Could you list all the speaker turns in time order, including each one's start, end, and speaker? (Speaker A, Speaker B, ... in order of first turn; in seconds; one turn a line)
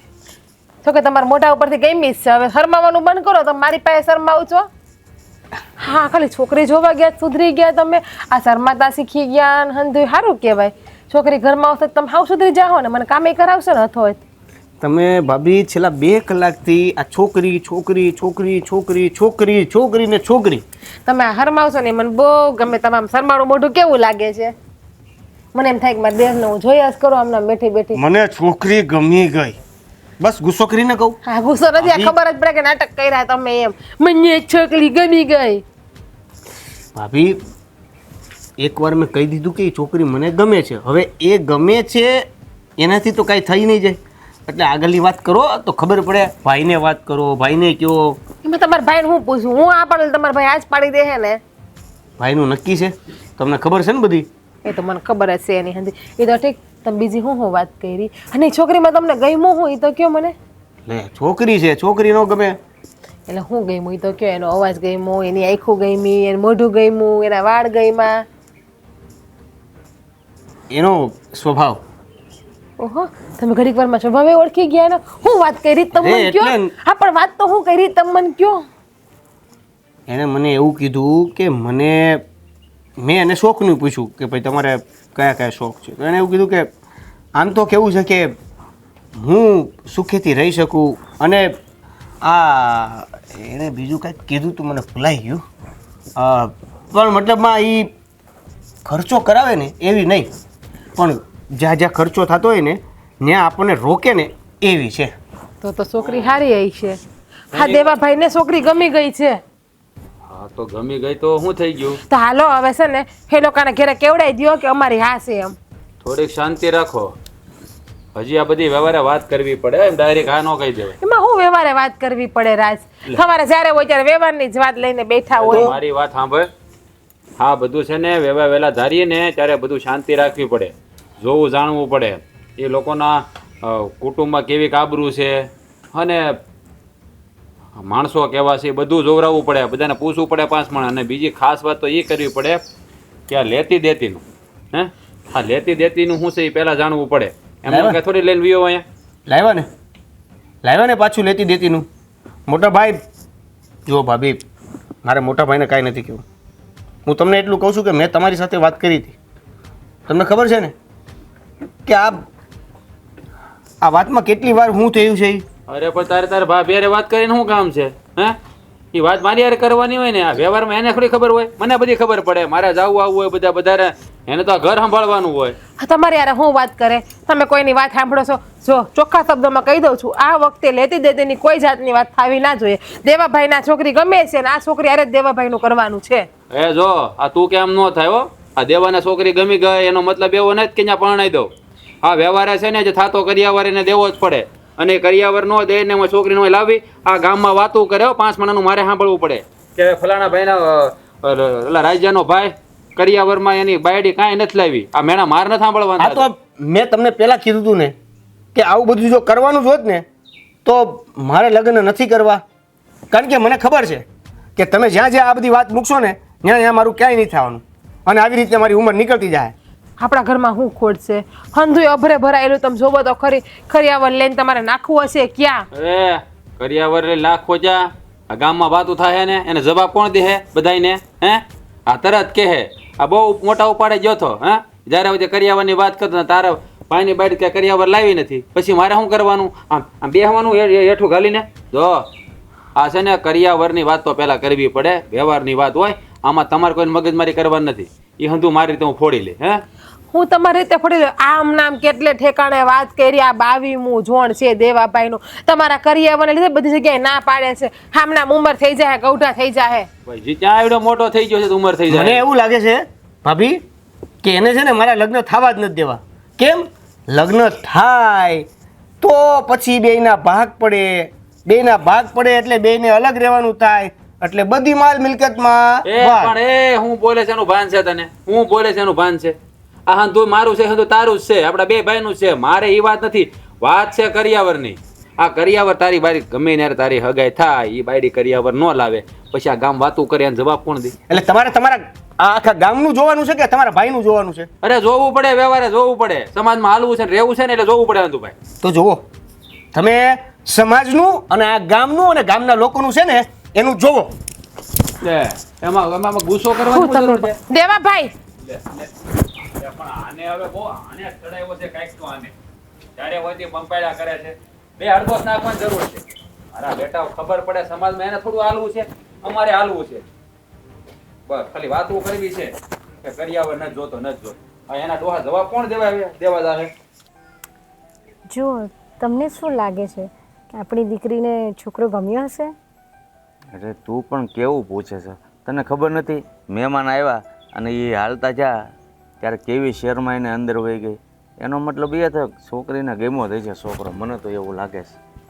Speaker A: 0.8-4.7
Speaker A: 5.8-14.2
Speaker B: 14.8-20.6
Speaker A: 21.1-24.5
Speaker A: 25.5-28.0
Speaker B: 27.9-29.6
Speaker B: 30.2-31.2
Speaker A: 31.3-35.6
Speaker B: 31.8-32.1
Speaker B: 37.0-37.4
Speaker B: 38.6-42.3
Speaker B: 42.8-48.2
Speaker A: 48.4-51.4
Speaker B: 52.2-54.3
Speaker A: 54.6-60.4
Speaker B: 60.9-62.6
Speaker A: 63.3-68.2
Speaker B: 70.7-71.8
Speaker A: 72.8-78.7
Speaker B: 75.9-76.7
Speaker B: 80.1-82.2
Speaker B: 83.0-86.7
Speaker B: 87.4-88.3
Speaker B: 89.2-91.5
Speaker B: 92.2-95.4
Speaker B: 96.2-97.9
Speaker B: 98.9-100.3
Speaker B: 101.0-105.1
Speaker A: 105.6-107.0
Speaker A: 107.5-109.4
Speaker C: 107.5-107.9
Speaker C: 110.3-112.0
Speaker A: 112.1-115.6
Speaker C: 116.0-117.1
Speaker C: 118.2-121.0
Speaker A: 121.0-125.7
Speaker C: 125.3-126.5
Speaker B: 125.5-125.8
Speaker C: 127.4-136.4
Speaker C: 137.8-142.6
Speaker C: 143.3-144.2
Speaker C: 144.7-148.8
Speaker B: 147.7-148.0
Speaker B: 149.3-149.7
Speaker B: 150.6-151.9
Speaker B: 152.5-153.0
Speaker B: 153.9-154.4
Speaker B: 155.0-156.2
Speaker B: 157.1-159.2
Speaker B: 160.1-160.7
Speaker B: 161.9-162.3
Speaker B: 163.8-165.4
Speaker C: 165.7-168.4
Speaker C: 168.9-175.6
Speaker A: 175.8-186.3
Speaker C: 186.5-191.5
Speaker C: 192.0-206.2
Speaker B: 206.0-208.0
Speaker B: 208.6-210.1
Speaker B: 210.7-212.4
Speaker B: 213.1-219.6
Speaker A: 220.0-225.7
Speaker C: 225.7-242.1
Speaker C: 242.8-249.6
Speaker A: 250.1-259.9
Speaker C: 260.1-262.2
Speaker B: 261.9-263.6
Speaker B: 264.2-268.5
Speaker B: 269.0-276.4
Speaker C: 275.9-279.4
Speaker C: 279.9-291.0
Speaker B: 291.1-294.5
Speaker C: 294.6-298.4
Speaker B: 298.6-299.1
Speaker B: 299.7-304.2
Speaker C: 305.0-307.4
Speaker A: 306.7-308.1
Speaker C: 308.4-312.3
Speaker C: 313.0-316.0
Speaker C: 316.5-320.0
Speaker C: 321.3-322.5
Speaker C: 323.0-326.7
Speaker D: 328.3-332.5
Speaker E: 333.5-338.7
Speaker E: 339.2-345.0